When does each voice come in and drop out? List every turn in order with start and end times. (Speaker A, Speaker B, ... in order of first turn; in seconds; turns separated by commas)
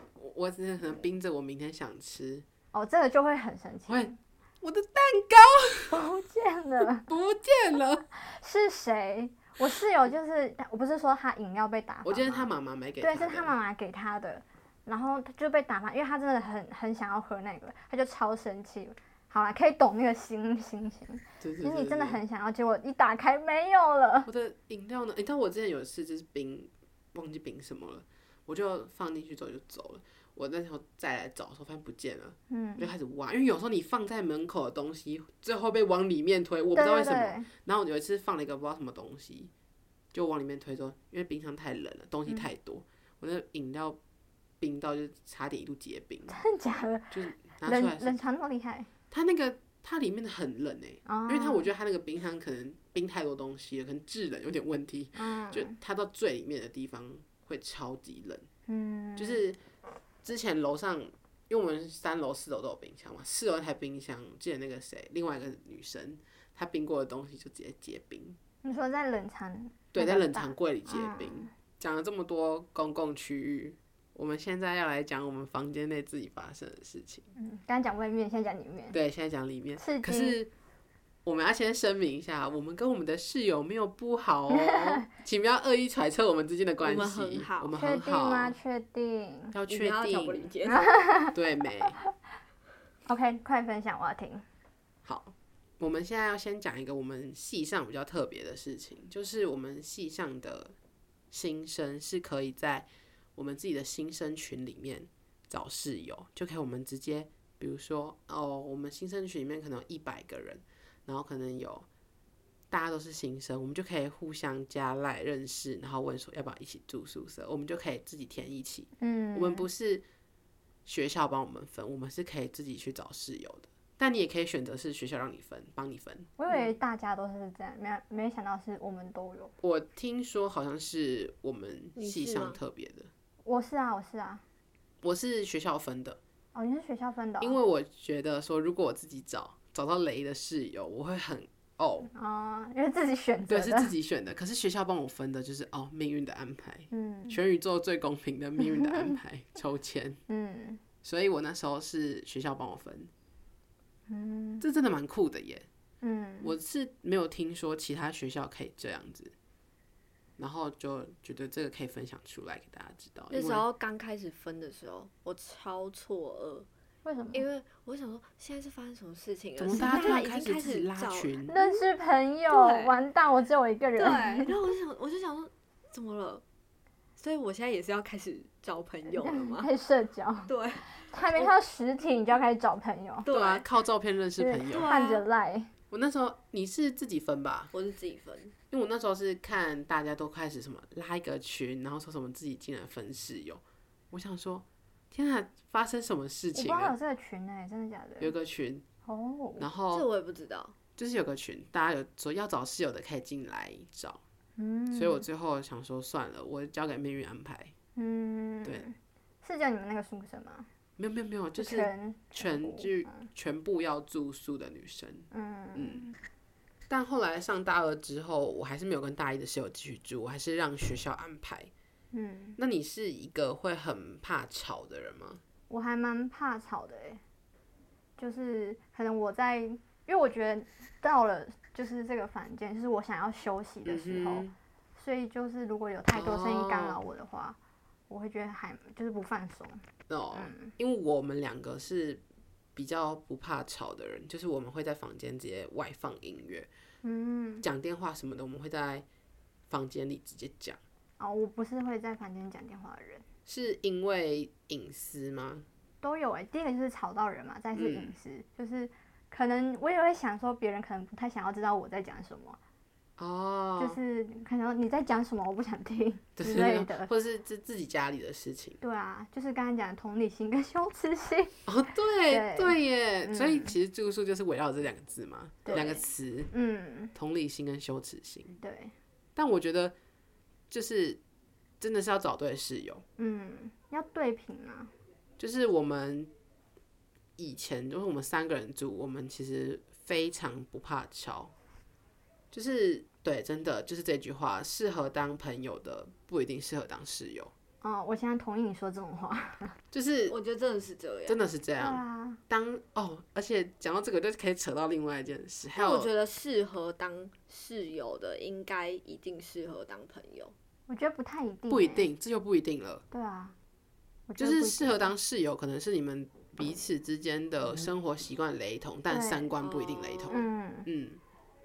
Speaker A: 0.2-2.5, Speaker B: 2.7-4.2, Speaker A: 3.9-6.0, Speaker B: 5.9-7.1, Speaker A: 7.1-8.1, Speaker B: 8.2-12.5, Speaker A: 12.1-13.6, Speaker B: 13.0-24.3, Speaker A: 21.4-22.2, Speaker A: 24.3-39.5, Speaker B: 32.5-32.9, Speaker B: 36.7-37.5, Speaker A: 40.1-44.0, Speaker A: 44.6-46.4, Speaker B: 46.3-48.9, Speaker A: 47.1-48.2, Speaker A: 49.1-58.5, Speaker B: 51.1-51.7, Speaker B: 55.2-55.8, Speaker B: 58.7-59.4, Speaker A: 59.2-59.6, Speaker A: 60.2-68.4, Speaker B: 68.6-71.5, Speaker A: 69.9-77.3, Speaker B: 77.4-79.0, Speaker A: 78.9-80.5, Speaker B: 79.8-80.4, Speaker A: 81.2-88.6, Speaker B: 84.5-85.1, Speaker C: 86.8-87.7, Speaker B: 87.8-89.5, Speaker A: 89.5-90.5, Speaker C: 89.7-90.8, Speaker B: 90.7-91.3, Speaker A: 91.3-92.0, Speaker B: 93.1-94.5, Speaker A: 95.0-100.7, Speaker A: 101.3-111.9, Speaker A: 112.7-120.0, Speaker B: 119.0-119.7, Speaker A: 120.9-126.3, Speaker B: 126.4-129.5, Speaker A: 129.6-133.1, Speaker C: 132.0-132.6, Speaker B: 133.4-134.4, Speaker A: 135.0-136.2, Speaker B: 136.5-137.6, Speaker A: 137.4-142.1, Speaker B: 142.1-143.9, Speaker A: 143.5-150.2, Speaker B: 146.9-147.4, Speaker B: 148.6-149.2, Speaker B: 150.3-150.8, Speaker A: 151.0-153.1, Speaker B: 154.1-154.6, Speaker A: 154.6-155.7, Speaker B: 156.0-156.5, Speaker A: 156.4-159.3, Speaker A: 160.4-163.6, Speaker C: 163.3-166.7, Speaker B: 167.1-167.5, Speaker C: 167.3-171.8, Speaker A: 169.6-171.6, Speaker B: 169.7-170.2, Speaker B: 171.5-174.6, Speaker C: 172.5-172.9, Speaker C: 174.0-176.4, Speaker C: 177.2-179.7, Speaker B: 179.1-180.5, Speaker C: 180.5-181.5, Speaker B: 181.0-183.3, Speaker C: 183.2-183.7, Speaker A: 183.3-184.9, Speaker B: 184.4-185.7, Speaker C: 184.7-185.2, Speaker A: 185.9-187.7, Speaker C: 187.7-188.5, Speaker A: 188.7-196.9, Speaker B: 196.6-198.3, Speaker A: 198.2-198.8, Speaker B: 199.1-199.7, Speaker A: 199.6-200.1, Speaker C: 199.9-200.8, Speaker A: 201.0-204.2, Speaker B: 204.6-205.2, Speaker A: 204.9-207.7, Speaker B: 208.0-210.7, Speaker A: 211.0-216.1, Speaker B: 211.6-213.2, Speaker B: 215.3-216.2, Speaker A: 216.9-221.7, Speaker B: 222.1-222.6, Speaker A: 222.6-225.4, Speaker B: 225.7-227.2, Speaker B: 228.2-237.6, Speaker A: 233.8-234.5, Speaker A: 236.1-237.0, Speaker B: 238.1-239.8, Speaker A: 240.1-242.2, Speaker B: 240.3-240.7, Speaker A: 242.8-246.7, Speaker B: 247.0-247.7, Speaker A: 247.6-249.1, Speaker A: 249.7-250.8, Speaker B: 251.2-253.2, Speaker A: 253.5-255.7, Speaker B: 256.0-262.6, Speaker A: 257.7-258.1, Speaker A: 263.2-264.0, Speaker B: 263.8-267.1, Speaker A: 266.4-268.8, Speaker B: 268.8-271.6, Speaker A: 271.7-276.5, Speaker B: 272.3-273.8, Speaker B: 275.6-277.1, Speaker A: 277.1-278.6, Speaker B: 278.6-278.9, Speaker A: 279.4-279.9, Speaker A: 280.7-281.2, Speaker A: 281.8-283.0, Speaker B: 283.2-284.9, Speaker A: 285.4-286.3, Speaker A: 287.4-291.5, Speaker A: 292.5-297.5, Speaker B: 297.8-299.8, Speaker A: 299.9-300.4, Speaker C: 300.3-301.4, Speaker A: 301.3-306.1, Speaker B: 301.8-302.4, Speaker C: 305.8-310.5, Speaker B: 310.9-312.1, Speaker A: 311.7-313.0, Speaker B: 313.1-313.6, Speaker B: 314.3-315.1, Speaker A: 314.4-321.2, Speaker B: 319.1-319.5, Speaker C: 319.6-320.4, Speaker B: 320.3-320.9